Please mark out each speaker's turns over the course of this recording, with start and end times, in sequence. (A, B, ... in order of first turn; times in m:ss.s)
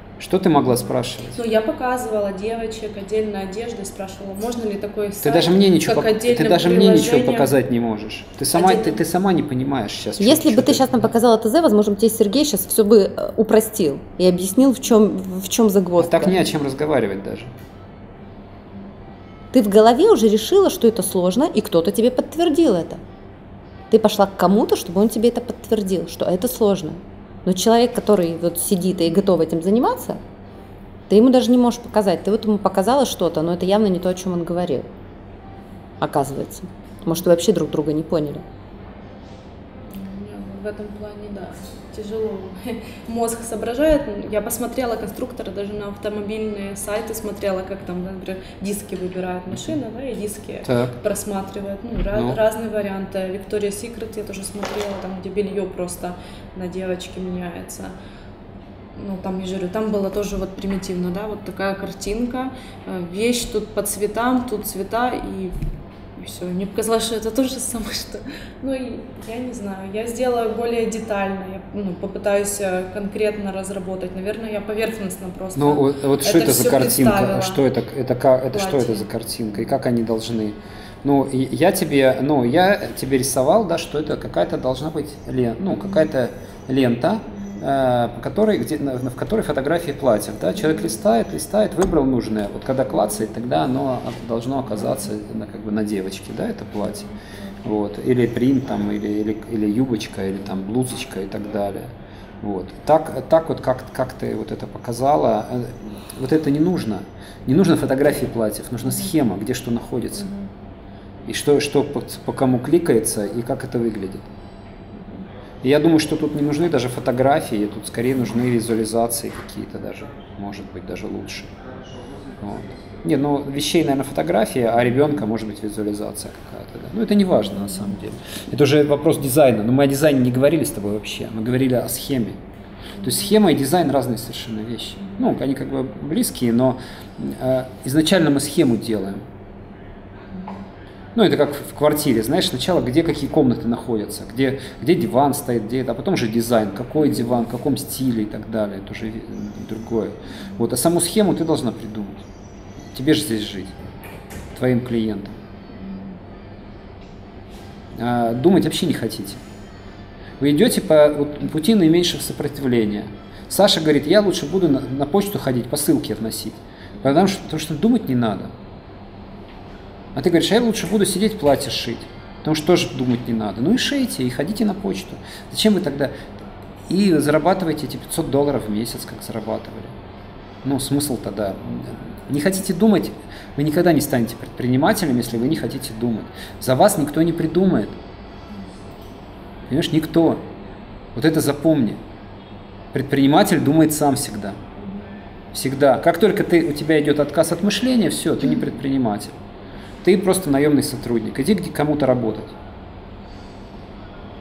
0:00.2-0:01.4 A
0:01.3-0:07.5 B
0:05.2-0:11.0 A
0:08.5-0:09.0 B
0:10.2-0:16.4 C
0:16.0-0:17.5 A
0:19.5-0:23.0 C
0:23.9-0:30.2 C
0:31.1-0:34.9 C
0:36.0-0:38.4 C
0:39.9-0:58.0 B
0:49.5-0:49.8 A
0:50.6-0:50.9 A
0:52.1-0:52.4 A
0:59.0-1:05.6 B
1:06.2-1:17.6 B
1:15.6-1:37.1 A
1:18.5-1:19.1 B
1:27.3-1:27.6 B
1:30.6-1:31.0 B
1:37.6-1:50.3 A
1:50.1-1:50.5 B
1:51.2-1:54.3 A
1:54.9-1:55.3 B
1:55.6-2:01.6 A
2:02.2-2:12.4 A
2:13.0-2:13.2 B
2:13.0-2:19.3 A
2:21.2-2:32.3 A
2:32.9-2:33.8 A
2:34.5-2:35.4 A
2:38.0-2:39.4 A
2:40.4-2:48.6 A
2:50.1-2:56.2 A
2:56.9-3:00.0 A
3:00.6-3:08.0 A
3:09.7-3:10.5 A
3:11.2-3:12.0 A
3:12.9-3:14.6 A
3:15.5-3:19.4 A
3:20.0-3:22.6 A